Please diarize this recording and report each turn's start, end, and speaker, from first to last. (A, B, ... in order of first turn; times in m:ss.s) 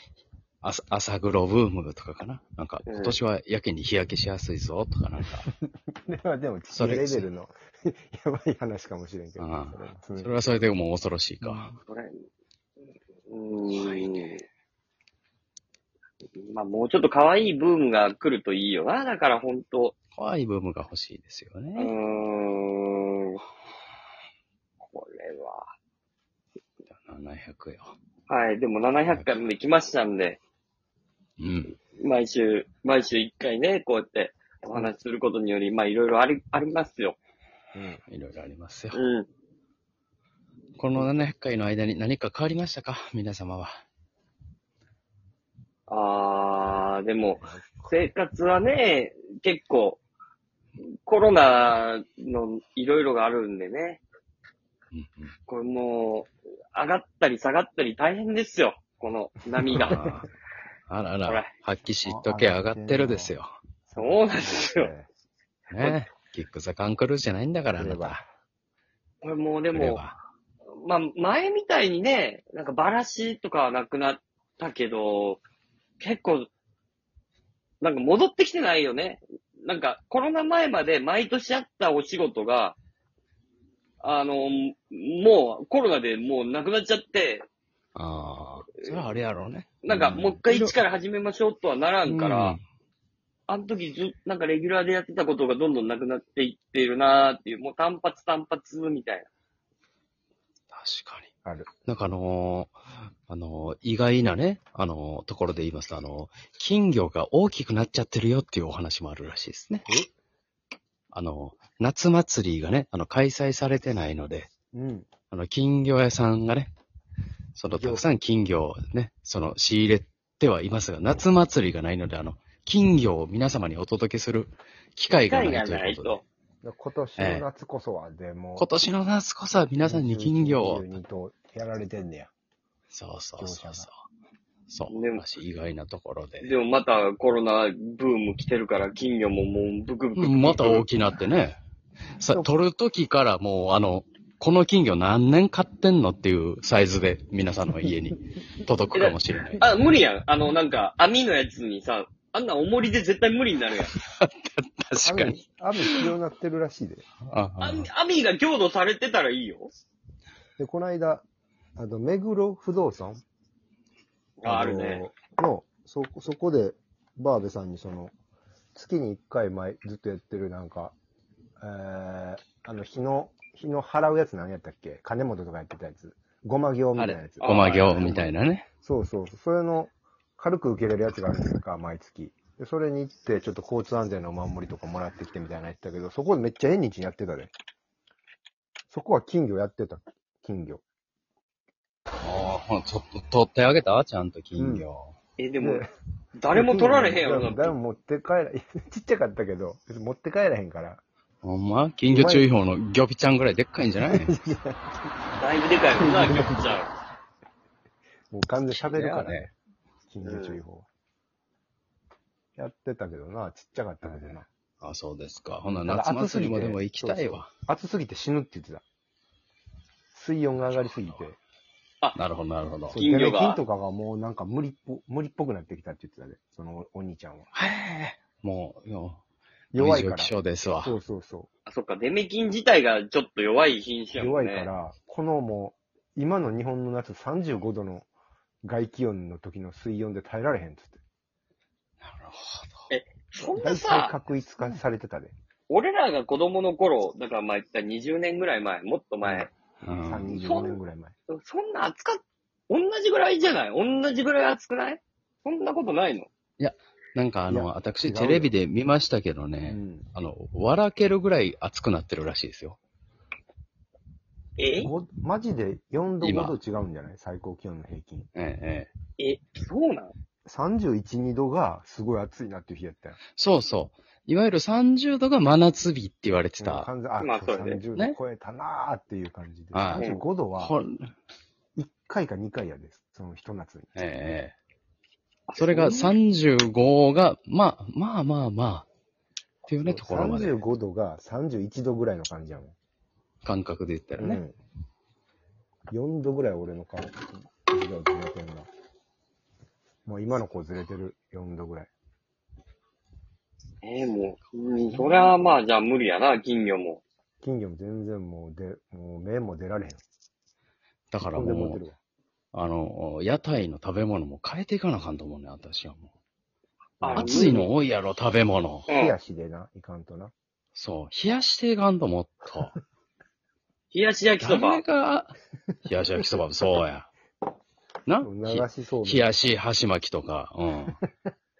0:00.6-0:05.5 A
0:02.8-0:03.2 B
0:05.9-0:10.6 C
0:06.7-0:07.3 A
0:09.4-0:11.7 A
0:11.4-0:11.7 C
0:11.8-0:12.2 B
0:13.3-0:14.4 B
0:13.7-0:14.4 A
0:16.4-0:19.9 B
0:20.1-0:21.9 A
0:21.8-0:23.4 B
0:24.8-0:25.7 B
0:27.0-0:27.9 A
0:28.3-0:30.4 B
0:31.4-0:31.7 A
0:31.9-0:37.2 B
0:37.7-0:38.0 C
0:38.1-0:39.0 A
0:38.9-0:39.3 B
0:40.8-0:43.7 A
0:45.9-0:50.0 B
0:51.0-0:54.0 B
0:54.9-0:55.3 A
0:55.5-1:00.1 B
0:59.7-1:00.3 A
1:00.9-1:03.5 A
1:01.3-1:01.5 B
1:02.0-1:03.3 C
1:03.9-1:05.1 C
1:04.0-1:04.9 B
1:05.7-1:08.2 A
1:07.8-1:08.3 C
1:09.2-1:10.0 B
1:09.7-1:10.2 A
1:10.7-1:15.4 B
1:16.0-1:16.5 B
1:17.8-1:22.8 B
1:24.0-1:27.4 B
1:28.0-1:30.7 A
1:28.8-1:29.0 B
1:29.8-1:32.6 B
1:32.1-1:32.6 A
1:33.5-1:39.3 B
1:40.7-1:41.3 A
1:41.9-1:42.8 A
1:43.3-1:49.9 A
1:51.1-1:54.5 A
1:54.7-1:55.1 C
1:55.3-1:56.7 A
1:57.6-2:06.2 A
1:57.7-1:58.1 C
2:05.2-2:06.2 B
2:06.6-2:08.7 C
2:07.2-2:07.4 A
2:08.6-2:10.9 A
2:09.8-2:12.3 C
2:12.9-2:14.0 A
2:13.4-2:13.9 C
2:14.7-2:16.5 A
2:14.9-2:15.2 B
2:16.4-2:20.8 B
2:20.2-2:21.6 A
2:22.2-2:29.6 A
2:28.9-2:33.9 B
2:33.9-2:36.1 A
2:35.0-2:37.0 C
2:37.2-2:37.9 A
2:37.6-2:39.7 B
2:40.6-2:41.2 C
2:41.8-2:43.2 C
2:44.4-2:45.0 B
2:44.4-2:48.1 C
2:48.7-2:50.9 C
2:51.6-3:07.5 C
2:56.9-2:58.6 A
2:57.4-2:58.2 B
3:08.9-3:10.8 C
3:12.2-3:15.1 A
3:14.6-3:14.8 C
3:15.4-3:15.8 B
3:15.6-3:15.8 C
3:16.4-3:17.7 B
3:16.5-3:21.0 C
3:21.4-3:24.3 A
3:22.1-3:22.5 C
3:24.0-3:25.0 C
3:25.4-3:26.9 B
3:25.9-3:26.7 C
3:28.3-3:29.5 C
3:28.7-3:29.5 A
3:30.1-3:30.9 C
3:30.2-3:30.6 B
3:32.6-3:34.5 C
3:34.0-3:37.5 A
3:35.6-3:38.8 C
3:40.1-3:41.4 C
3:40.6-3:41.2 A
3:42.1-3:43.0 A
3:42.9-3:47.5 C
3:42.9-3:43.6 B
3:47.5-3:49.2 A
3:49.7-3:51.5 C
3:49.7-3:51.0 A
3:51.7-3:54.7 B
3:54.1-3:58.0 C
3:58.6-4:01.0 C
4:02.0-4:02.9 A
4:02.9-4:04.1 B
4:03.6-4:05.3 C
4:03.7-4:04.1 A
4:05.7-4:09.5 B
4:09.8-4:10.4 A
4:10.0-4:11.1 C
4:10.4-4:16.3 B
4:16.6-4:22.8 A
4:17.5-4:18.5 C
4:19.6-4:20.1 C
4:24.6-4:24.9 B
4:24.8-4:28.3 C
4:26.2-4:26.6 A
4:28.3-4:28.9 A
4:29.2-4:30.1 B
4:30.4-4:33.2 C
4:33.4-4:36.9 A
4:36.6-4:40.7 C
4:37.2-4:37.8 B
4:39.7-4:41.1 A
4:40.0-4:40.2 B
4:41.8-4:43.9 C
4:43.9-4:44.5 A
4:45.5-4:46.1 B
4:45.6-4:48.9 A
4:49.7-4:50.6 A
4:49.8-4:52.7 C
4:53.4-4:54.4 A
4:54.2-4:54.5 C
4:55.9-4:58.7 C
5:00.0-5:01.9 C
5:03.8-5:07.0 B
5:07.4-5:10.0 C
5:11.1-5:11.8 A
5:11.2-5:12.0 C
5:12.5-5:16.1 A
5:17.0-5:17.7 B
5:17.0-5:17.7 C
5:17.2-5:18.9 A
5:18.9-5:19.2 B
5:18.9-5:20.3 C
5:20.8-5:22.8 A
5:23.9-5:24.8 B
5:24.4-5:27.1 A
5:28.0-5:31.0 A
5:28.2-5:29.6 C